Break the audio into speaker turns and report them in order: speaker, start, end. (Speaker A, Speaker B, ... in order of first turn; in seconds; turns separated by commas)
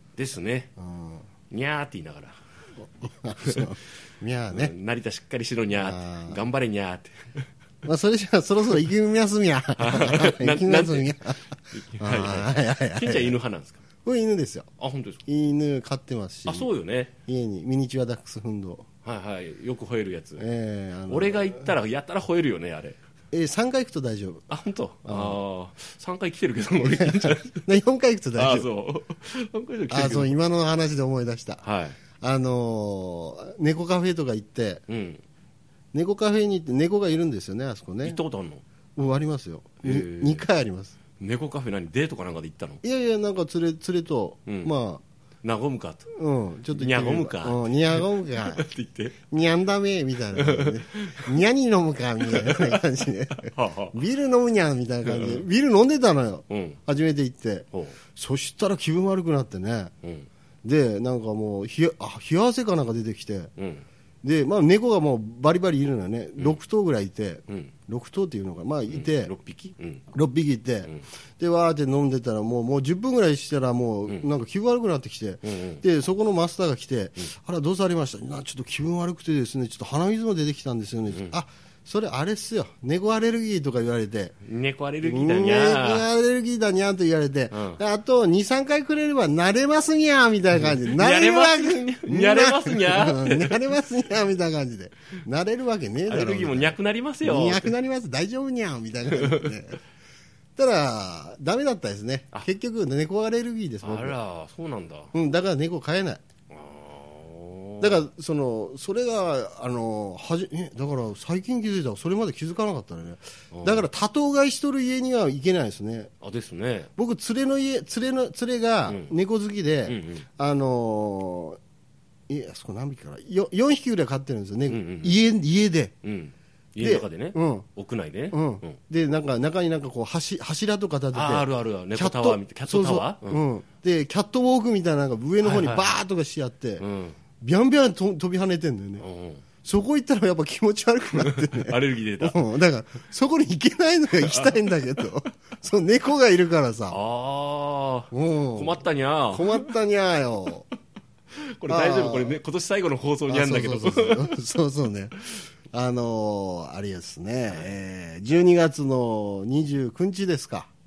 Speaker A: 0.1-0.7, Speaker B: 0.8-1.3, Speaker A: 1.5-2.4, Speaker B: 2.8-4.7, Speaker A: 3.4-3.7, Speaker A: 4.5-7.5, Speaker B: 5.7-6.4, Speaker B: 7.8-13.4, Speaker A: 9.8-11.1, Speaker A: 11.7-13.8, Speaker B: 14.0-14.7, Speaker A: 14.8-15.2, Speaker B: 15.2-16.7, Speaker A: 16.4-17.1, Speaker B: 17.3-18.9, Speaker A: 19.0-20.4, Speaker B: 20.4-21.7, Speaker A: 21.1-23.0, Speaker B: 23.3-24.5, Speaker A: 24.5-27.7, Speaker B: 25.0-25.4, Speaker B: 26.8-28.7, Speaker A: 28.3-30.4, Speaker B: 29.9-31.6, Speaker A: 31.6-32.0, Speaker B: 32.2-34.8, Speaker A: 34.9-35.2, Speaker B: 35.9-38.2, Speaker A: 38.0-38.6, Speaker B: 39.0-41.0, Speaker A: 39.8-40.5, Speaker A: 41.2-42.8, Speaker B: 42.8-45.0, Speaker A: 44.5-44.7, Speaker A: 45.4-46.1, Speaker B: 46.1-48.7, Speaker A: 46.7-49.2, Speaker B: 49.3-59.9, Speaker A: 50.3-51.4, Speaker A: 52.2-52.8, Speaker A: 53.4-54.0, Speaker A: 55.0-55.5, Speaker A: 56.5-56.8, Speaker A: 57.7-58.0, Speaker A: 60.0-60.3, Speaker B: 60.6-63.5, Speaker A: 63.5-63.9, Speaker B: 64.2-69.3, Speaker A: 67.5-67.7, Speaker A: 68.9-70.1, Speaker B: 70.1-84.3, Speaker A: 75.4-75.8, Speaker A: 81.1-81.4, Speaker A: 84.4-86.1, Speaker B: 85.0-99.8, Speaker A: 87.5-87.8, Speaker A: 90.5-93.8, Speaker A: 96.0-97.8, Speaker A: 99.1-99.5, Speaker B: 100.5-104.2, Speaker A: 103.8-105.1, Speaker B: 105.1-106.2, Speaker A: 106.5-108.0, Speaker B: 107.8-116.1, Speaker A: 113.5-113.8, Speaker A: 116.2-116.9, Speaker B: 117.0-121.6, Speaker A: 118.9-119.1, Speaker A: 119.8-120.3, Speaker B: 122.3-125.9, Speaker A: 124.7-125.2, Speaker A: 126.0-128.8, Speaker B: 126.8-127.7, Speaker B: 128.3-136.8, Speaker A: 131.1-133.4, Speaker A: 135.4-136.0, Speaker A: 136.8-137.2, Speaker B: 137.4-139.0, Speaker A: 139.0-139.4, Speaker B: 139.6-147.0, Speaker A: 141.1-142.4, Speaker A: 144.2-144.8, Speaker A: 146.9-149.7, Speaker B: 148.1-150.6, Speaker A: 151.3-154.4, Speaker B: 151.7-152.4, Speaker B: 153.3-155.2, Speaker B: 155.7-160.7, Speaker A: 157.5-157.7